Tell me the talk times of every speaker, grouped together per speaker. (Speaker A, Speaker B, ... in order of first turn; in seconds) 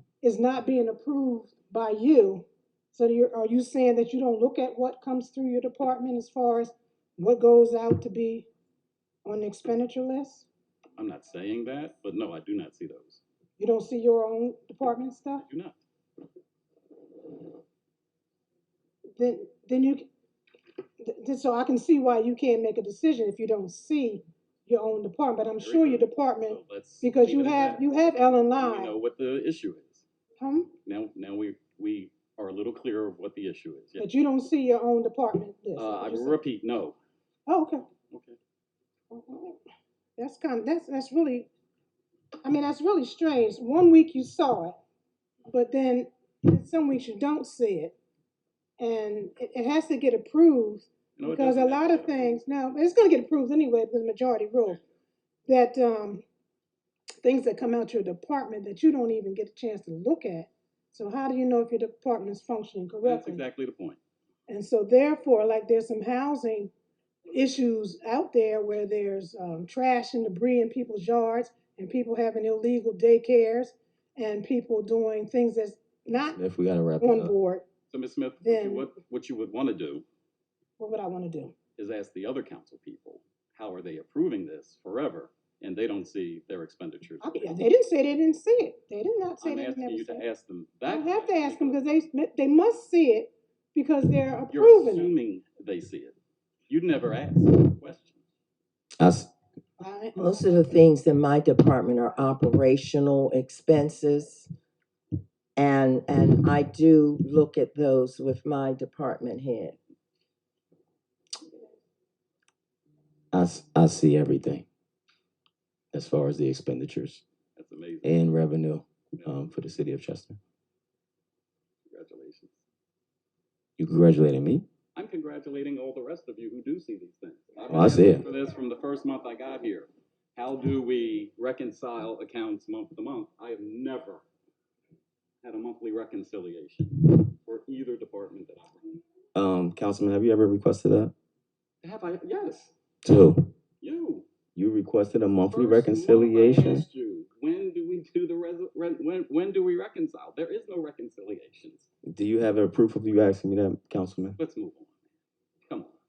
Speaker A: 0.2-8.5, 9.2-10.5, 13.6-15.4, 19.2-20.1, 21.0-28.9, 30.4-30.7, 34.0-36.4, 37.5-37.9, 39.1-39.6, 40.2-41.5, 42.4-44.8, 45.5-48.0, 48.8-54.8, 55.5-56.2, 57.2-63.5, 64.5-66.7, 67.3-76.4, 77.0-77.7, 78.4-78.9, 80.8-81.5, 87.2-90.2, 90.8-95.1, 99.8-100.7
Speaker B: 11.0-13.2, 15.4-15.8, 25.6-30.0, 30.9-34.1, 35.8-37.0, 38.1-38.4, 51.2-52.5, 63.0-64.0, 77.9-80.0, 81.8-87.6, 89.4-91.8, 94.5-96.2, 96.7-98.2, 117.6-118.3, 121.9-122.6, 125.0-134.2, 135.4-139.0, 141.8-142.7, 143.8-144.3, 145.5-151.9, 154.4-154.9, 155.7-155.9
Speaker C: 76.3-77.3, 99.0-99.3, 113.3-114.7, 115.9-117.2, 118.0-120.4, 123.8-124.7, 127.7-128.3, 139.3-141.1, 143.0-143.5, 144.6-146.9, 152.1-154.4
Speaker D: 100.2-104.5, 105.6-109.8